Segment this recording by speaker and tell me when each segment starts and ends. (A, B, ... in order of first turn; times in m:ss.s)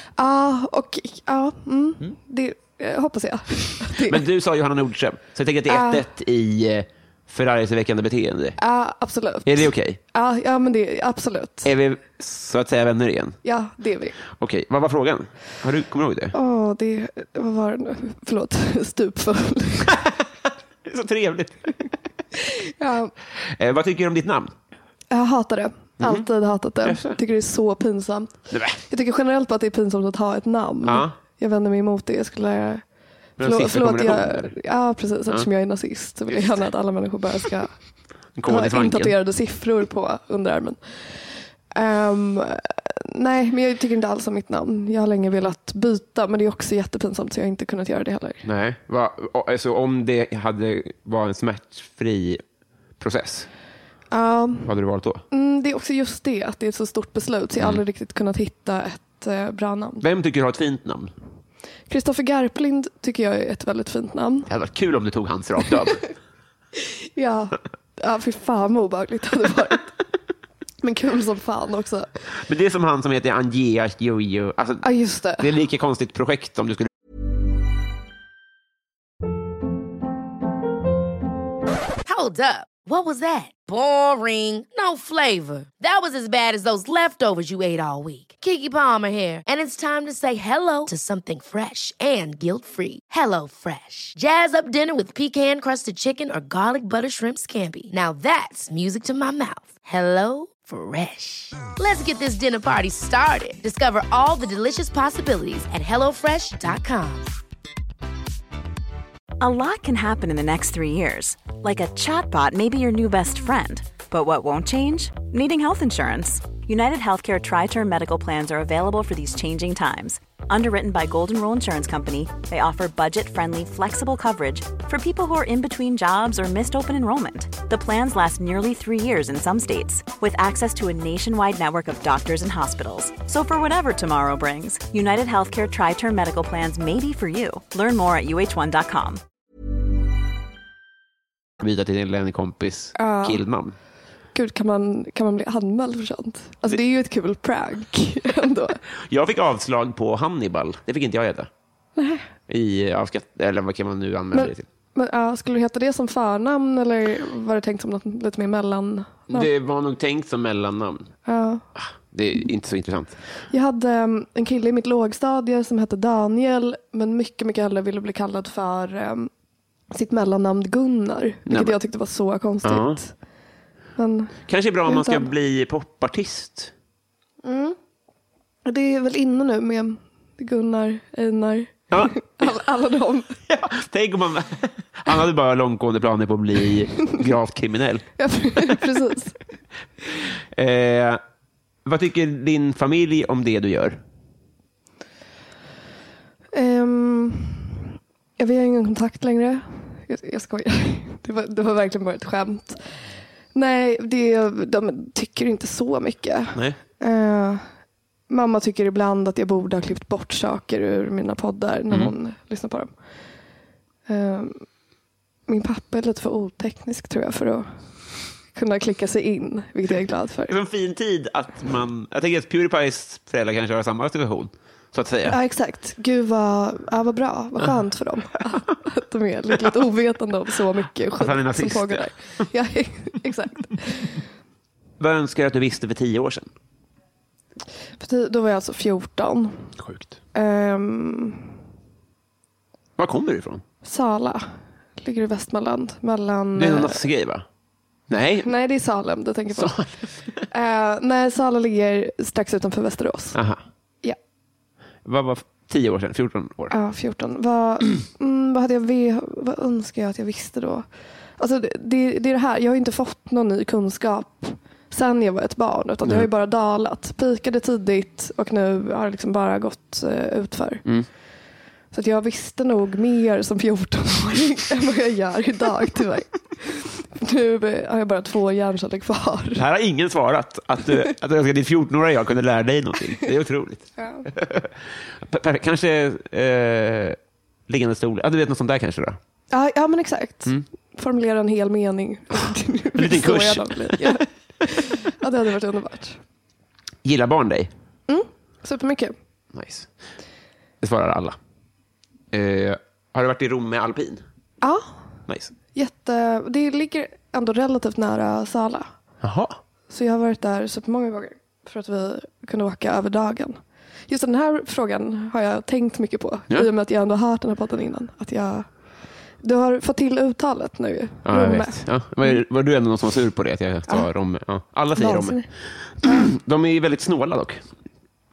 0:00.2-0:04.2 A
0:04.1-0:08.6 B
0:05.7-0:06.0 A
0:08.6-0:11.7 A
0:09.5-0:10.0 B
0:11.6-0:13.4 B
0:13.4-0:14.2 A
0:14.3-0:16.3 B
0:16.3-0:20.0 A
0:20.9-0:21.9 B
0:22.8-0:23.1 A
0:23.6-0:24.5 B
0:25.1-0:32.8 A
0:26.0-0:26.3 B
0:26.8-0:27.2 B
0:28.5-0:28.8 B
0:30.8-0:31.1 B
0:33.4-0:34.5 B
0:33.4-0:37.7 A
0:38.4-0:39.1 B
0:38.5-0:48.4 A
0:48.4-0:52.4 B
0:53.0-0:53.5 B
0:54.1-0:54.7 A
0:54.6-0:55.2 B
0:55.3-1:00.0 A
1:00.0-1:01.1 B
1:01.9-1:04.5 A
1:04.5-1:06.1 B
1:07.2-1:09.9 A
1:10.8-1:12.1 A
1:12.5-1:16.9 B
1:14.8-1:15.5 A
1:22.1-1:47.4 C
1:49.4-2:19.2 D
2:21.6-2:23.8 B
2:23.0-2:23.4 A
2:24.3-2:28.8 A
2:29.1-2:31.5 B
2:32.0-2:32.3 A
2:32.5-2:34.6 B
2:34.3-2:39.5 A
2:39.3-2:41.1 B
2:41.3-2:41.6 A
2:41.8-2:43.2 B
2:43.5-2:49.3 A
2:49.9-2:53.1 A
2:51.5-2:51.8 B
2:52.6-2:53.0 B
2:54.0-2:55.3 A
2:54.5-2:56.7 B
2:57.4-2:57.8 A
2:58.6-3:03.4 A
3:01.9-3:02.2 B
3:03.5-3:08.1 B
3:08.2-3:09.4 A
3:10.6-3:11.2 B
3:11.9-3:14.0 B
3:16.5-3:17.8 A
3:18.4-3:22.8 A
3:23.5-3:27.6 A
3:28.3-3:32.9 A
3:34.1-3:34.7 A
3:35.5-3:37.7 A
3:38.5-3:40.5 A
3:40.5-3:45.4 B
3:45.3-3:54.2 A
3:51.2-3:52.1 B
3:55.0-3:56.5 B
3:58.0-3:59.7 A
3:59.8-4:00.2 B
4:00.3-4:01.5 A
4:03.0-4:03.6 B
4:03.8-4:04.5 A
4:05.0-4:07.0 A
4:06.6-4:07.4 B
4:08.1-4:08.5 B
4:08.4-4:09.8 A
4:09.6-4:10.4 B
4:10.5-4:13.4 A
4:13.4-4:13.6 B
4:15.0-4:16.7 B
4:16.7-4:20.9 A
4:21.4-4:30.8 A
4:31.9-4:39.6 A
4:39.6-4:49.2 B
4:44.0-4:44.3 A
4:49.5-4:56.2 A
4:53.0-4:54.2 B
4:57.0-4:57.7 B
4:58.1-4:59.1 A
4:59.5-4:59.9 B
5:00.8-5:01.4 B
5:02.3-5:04.2 B
5:04.6-5:04.9 A
5:05.3-5:05.5 B
5:05.7-5:08.9 A
5:09.2-5:09.6 B
5:09.9-5:13.6 A
5:14.1-5:18.7 A
5:19.4-5:22.4 A
5:21.2-5:27.7 B
5:25.0-5:25.5 A